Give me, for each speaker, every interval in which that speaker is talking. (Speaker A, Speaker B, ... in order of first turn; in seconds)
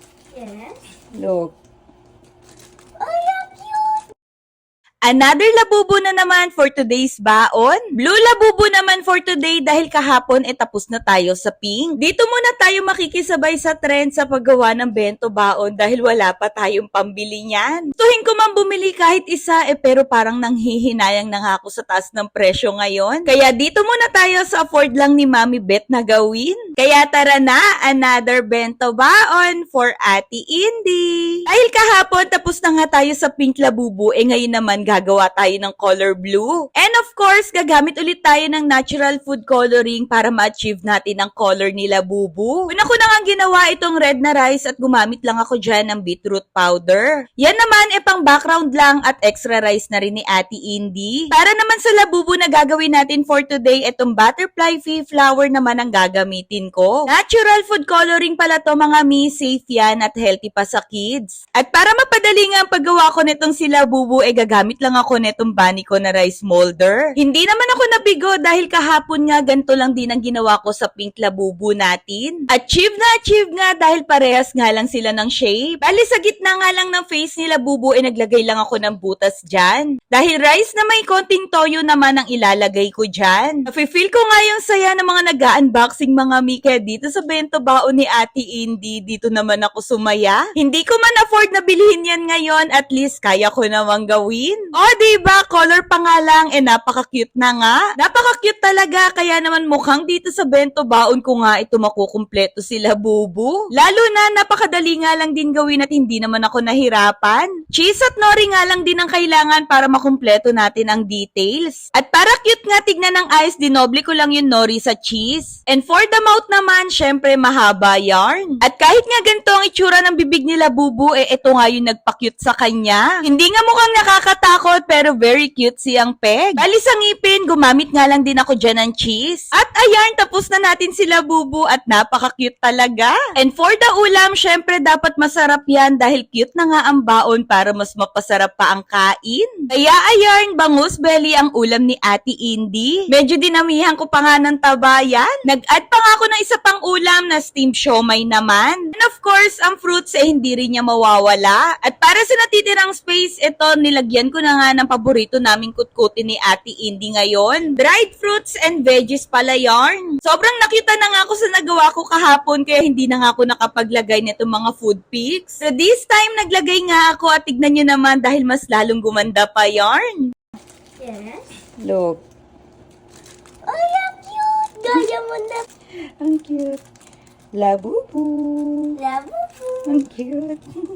Speaker A: 0.3-0.8, 3.0-4.1, 171.0-171.4, 173.7-175.7, 178.9-180.0
Speaker B: 1.2-1.5, 171.8-172.2, 176.2-176.8, 177.5-178.9, 179.9-180.6
Speaker C: 5.0-170.3